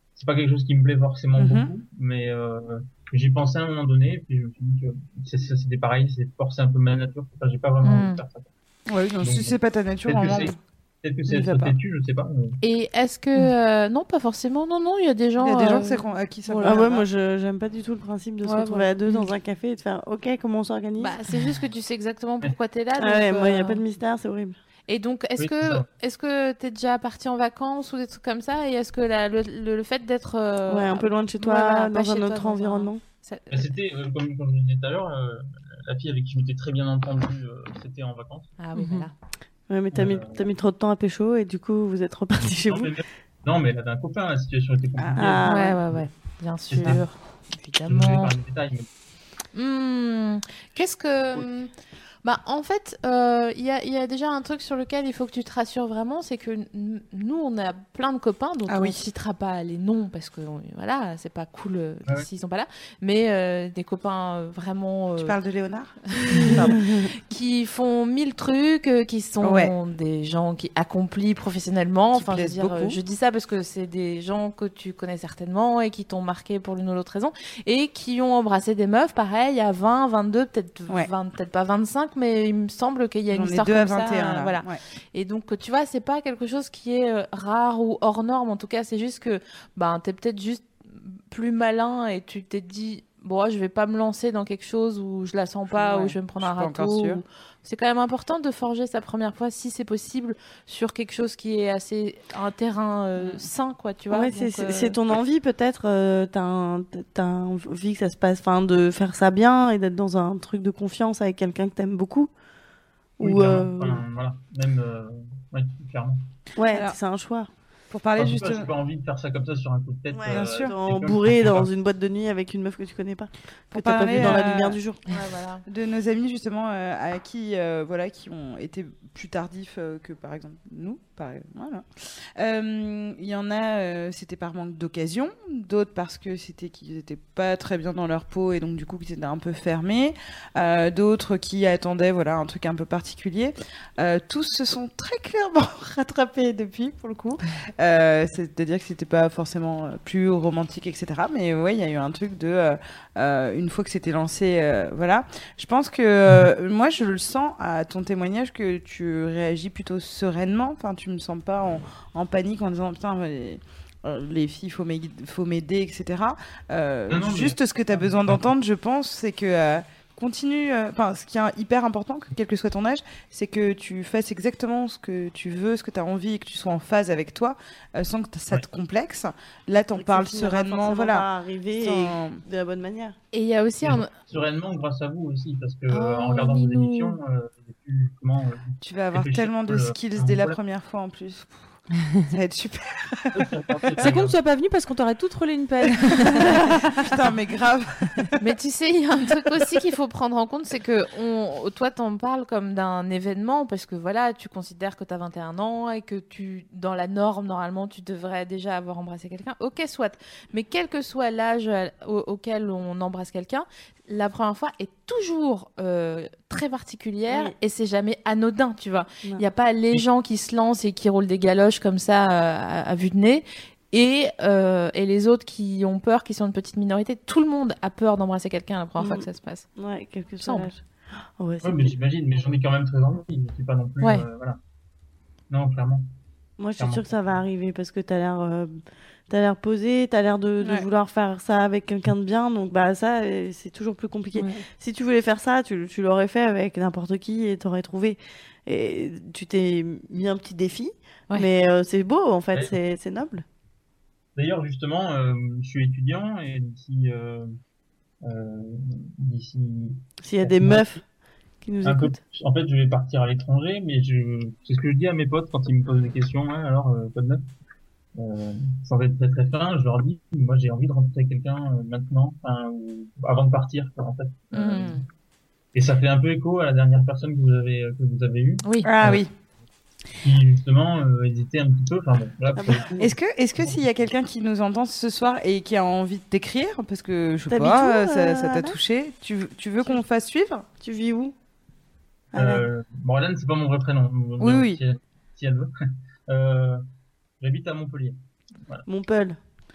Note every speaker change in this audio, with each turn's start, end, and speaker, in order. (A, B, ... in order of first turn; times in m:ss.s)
0:00.1-0:08.5 A
0:01.4-0:01.7 B
0:07.8-0:08.2 C
0:08.9-0:10.5 B
0:09.2-0:12.6 A
0:11.3-0:11.7 B
0:12.6-0:16.8 C
0:15.4-0:17.0 B
0:16.6-0:21.1 D
0:18.4-0:19.3 C
0:21.0-0:23.8 C
0:23.0-0:24.5 D
0:24.9-0:33.7 C
0:25.4-0:25.9 A
0:30.7-0:33.0 D
0:33.5-0:38.5 A
0:38.6-0:39.1 C
0:38.7-0:39.1 E
0:39.7-0:42.9 D
0:39.9-0:40.5 A
0:42.4-0:45.5 A
0:45.0-0:45.4 B
0:45.2-0:45.8 D
0:45.4-0:48.3 C
0:46.7-0:47.0 A
0:47.8-0:48.9 A
0:49.5-0:51.7 C
0:52.2-1:05.4 C
0:58.7-0:59.1 B
1:05.2-1:06.9 B
1:06.2-1:45.0 C
1:09.4-1:09.7 B
1:12.1-1:13.0 B
1:23.3-1:24.8 B
1:35.7-1:37.2 B
1:43.2-1:43.4 B
1:44.1-1:52.3 D
1:53.2-1:54.0 D
1:53.2-1:56.2 A
1:56.6-1:57.5 D
1:56.7-1:57.0 B
1:57.9-1:58.7 B
1:58.2-2:01.7 A
2:00.1-2:05.0 D
2:00.3-2:00.7 B
2:03.7-2:04.8 B
2:05.1-2:05.6 C
2:05.6-3:02.4 B
2:47.1-2:48.5 A
3:00.0-3:03.1 D
3:03.3-3:04.1 C
3:03.8-3:10.6 A
3:05.9-3:07.2 C
3:08.8-3:11.8 B
3:12.3-3:13.4 B
3:13.3-3:14.4 A
3:14.0-3:17.0 E
3:16.1-3:18.3 B
3:18.4-3:49.6 C
3:49.0-3:49.2 D
3:49.8-3:50.8 D
3:50.4-3:50.7 C
3:51.4-3:51.9 D
3:51.6-3:54.6 A
3:54.0-3:54.2 C
3:55.5-3:56.0 A
3:56.6-3:58.8 D
3:56.8-3:57.4 A
3:59.3-4:13.4 D
4:00.6-4:00.9 B
4:14.4-4:17.5 A
4:18.2-4:21.0 A
4:20.2-4:21.0 D
4:21.6-4:22.2 D
4:21.8-4:27.4 A
4:28.2-4:35.0 A
4:34.6-4:35.0 C
4:35.7-4:39.2 A
4:38.6-4:38.9 C
4:38.8-4:39.3 B
4:40.2-4:43.8 A
4:42.6-4:43.1 D
4:43.0-4:50.6 B
4:47.5-4:48.8 D
4:50.8-4:51.3 D
4:52.3-4:52.7 D
4:52.3-4:55.7 A
4:54.4-4:54.8 B
4:56.3-4:56.8 A
4:57.4-4:58.8 A
4:58.9-4:59.4 D